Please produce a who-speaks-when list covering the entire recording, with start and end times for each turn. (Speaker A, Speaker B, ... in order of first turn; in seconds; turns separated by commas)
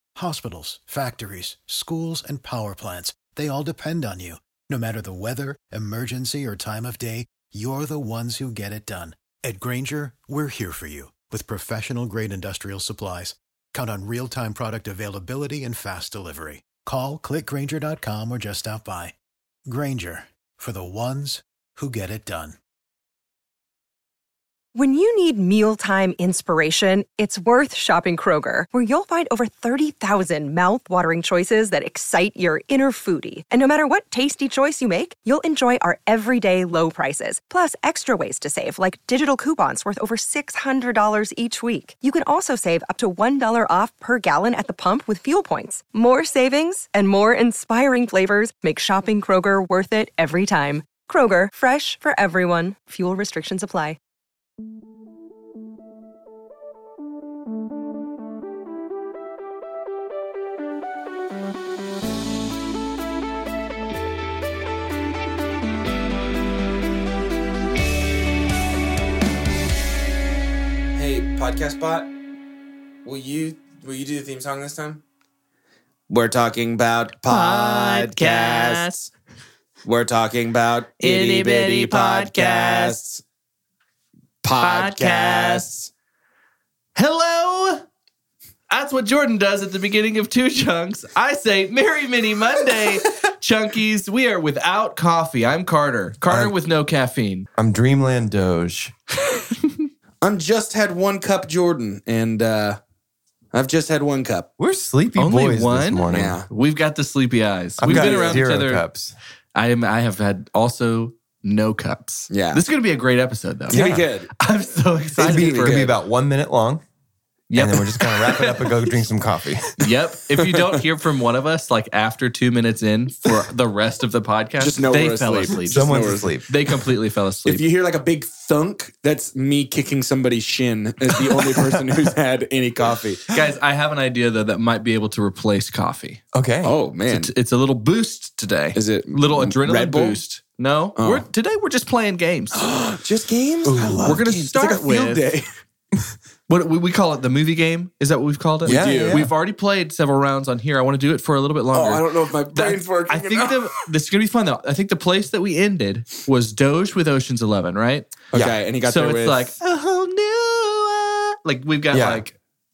Speaker A: 0.2-22.6, Speaker B: 24.7-54.0, Speaker C: 71.0-72.1, Speaker C: 73.0-75.0, Speaker C: 76.1-78.9, Speaker D: 77.2-79.1, Speaker C: 79.8-83.2, Speaker D: 81.0-83.0, Speaker C: 84.4-85.9, Speaker D: 84.6-85.7, Speaker D: 87.0-87.8, Speaker D: 88.7-97.5, Speaker E: 96.3-96.5, Speaker E: 97.6-98.9, Speaker D: 99.4-99.8, Speaker C: 100.2-102.8, Speaker C: 103.5-104.5, Speaker E: 104.6-106.4, Speaker D: 105.2-108.9, Speaker C: 106.1-106.5, Speaker E: 107.8-109.2, Speaker C: 107.8-108.4, Speaker D: 109.5-115.9, Speaker C: 112.3-112.6, Speaker C: 113.7-114.3, Speaker E: 113.7-114.1, Speaker C: 115.2-115.9, Speaker E: 115.2-116.8, Speaker D: 117.5-118.8, Speaker E: 117.5-119.9, Speaker D: 119.8-127.6, Speaker C: 124.6-126.3, Speaker E: 125.7-126.5, Speaker C: 127.5-133.2, Speaker D: 133.3-136.2, Speaker E: 136.3-136.7, Speaker C: 136.6-137.3, Speaker D: 137.1-142.7, Speaker C: 138.8-140.2, Speaker C: 141.0-141.2, Speaker C: 142.5-145.5, Speaker E: 143.6-144.2, Speaker D: 144.0-145.3, Speaker D: 146.5-158.2, Speaker C: 148.6-149.3, Speaker E: 148.6-149.3, Speaker C: 151.7-153.7, Speaker C: 158.3-159.5, Speaker E: 158.3-158.6, Speaker D: 158.8-162.3, Speaker E: 161.9-162.2